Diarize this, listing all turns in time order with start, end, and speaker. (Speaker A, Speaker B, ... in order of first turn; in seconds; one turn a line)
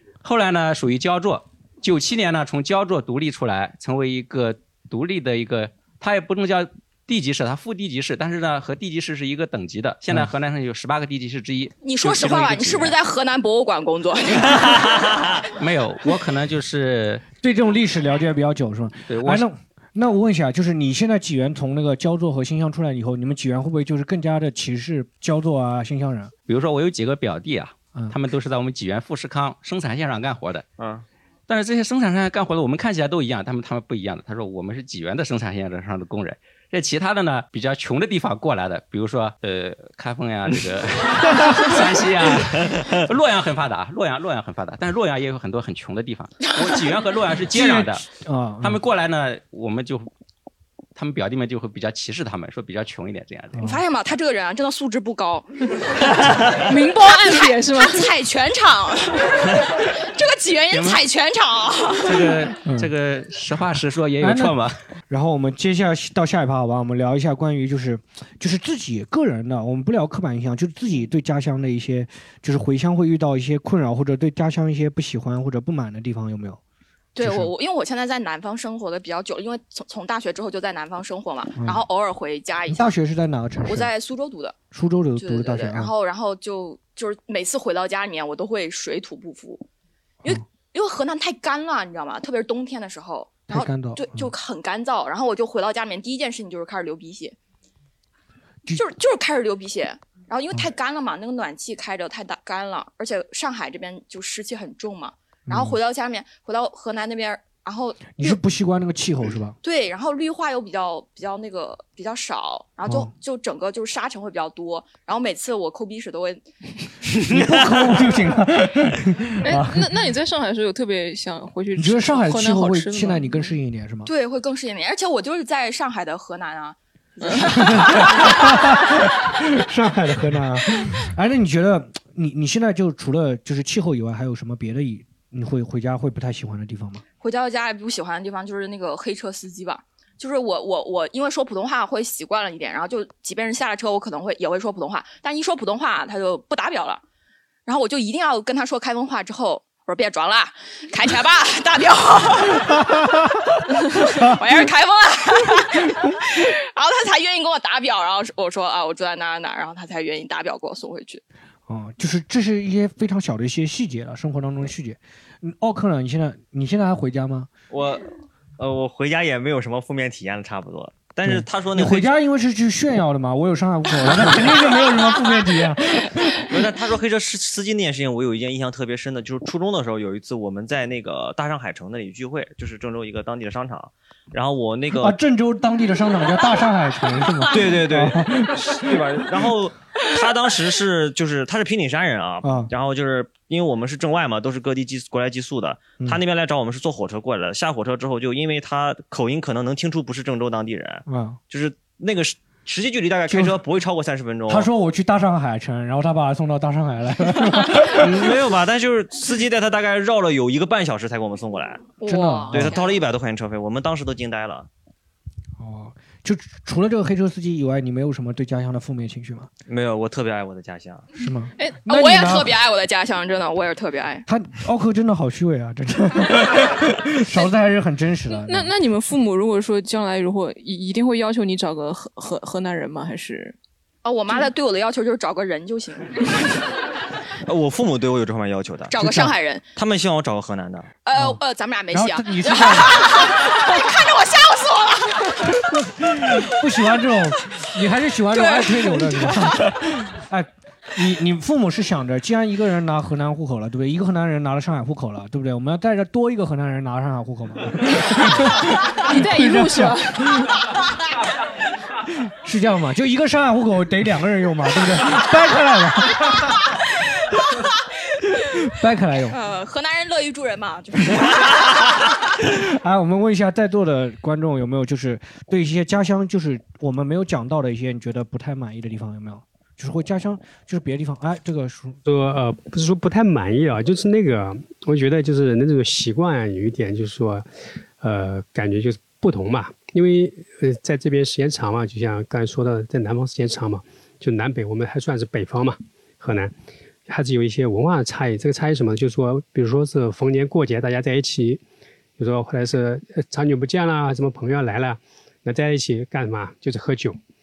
Speaker A: 0.2-13.0
Speaker B: 11.8-15.3
Speaker A: 15.5-17.2
Speaker C: 17.4-26.3
Speaker A: 19.1-19.5
Speaker A: 26.5-30.6
Speaker D: 30.8-31.1
Speaker A: 31.5-48.1
Speaker C: 47.5-48.8
Speaker A: 48.6-50.1
Speaker A: 51.0-53.7
Speaker C: 53.5-53.8
Speaker B: 53.6-55.5
Speaker E: 56.6-58.1
Speaker B: 57.0-62.4
Speaker A: 60.7-61.0
Speaker A: 62.0-64.8
Speaker C: 64.2-76.6
Speaker B: 77.2-83.0
Speaker C: 77.2-77.5
Speaker C: 81.6-81.8
Speaker C: 82.7-83.9
Speaker B: 83.7-84.6
Speaker C: 84.7-85.9
Speaker B: 85.2-89.7
Speaker B: 90.2-97.3
Speaker C: 93.5-94.3
Speaker B: 98.7-108.4
Speaker C: 105.5-105.8
Speaker C: 108.2-109.6
Speaker B: 109.6-116.5
Speaker C: 112.9-113.1
Speaker C: 117.2-119.9
Speaker E: 119.4-123.6
Speaker C: 121.8-124.1
Speaker B: 124.1-129.1
Speaker E: 127.2-127.5
Speaker C: 127.5-137.0
Speaker B: 137.2-147.0
Speaker B: 147.7-153.1
Speaker B: 153.7-161.2
Speaker C: 154.0-154.7
Speaker C: 161.7-167.5
Speaker D: 167.7-172.1
Speaker C: 171.2-176.5
Speaker D: 176.5-185.2
Speaker C: 185.0-189.2
Speaker D: 187.5-204.7
Speaker C: 192.4-192.7
Speaker C: 201.1-201.4
Speaker C: 203.3-203.6
Speaker C: 204.5-208.3
Speaker D: 207.9-211.9
Speaker B: 212.0-213.0
Speaker C: 212.1-212.8
Speaker D: 212.5-214.7
Speaker C: 215.6-219.5
Speaker D: 219.7-221.1
Speaker C: 221.2-222.6
Speaker B: 221.9-224.2
Speaker C: 224.3-228.7
Speaker E: 228.5-233.6
Speaker B: 234.0-236.5
Speaker D: 237.5-238.9
Speaker B: 238.9-239.6
Speaker C: 239.0-239.3
Speaker D: 239.8-240.9
Speaker B: 241.0-246.5
Speaker C: 241.2-243.3
Speaker C: 245.7-260.6
Speaker B: 248.3-249.7
Speaker E: 259.0-260.4
Speaker C: 262.2-266.6
Speaker B: 267.4-267.7
Speaker C: 268.6-269.4
Speaker B: 269.3-271.9
Speaker C: 272.4-282.0
Speaker F: 282.1-287.5
Speaker F: 288.0-296.5
Speaker F: 297.1-301.6
Speaker F: 302.2-307.2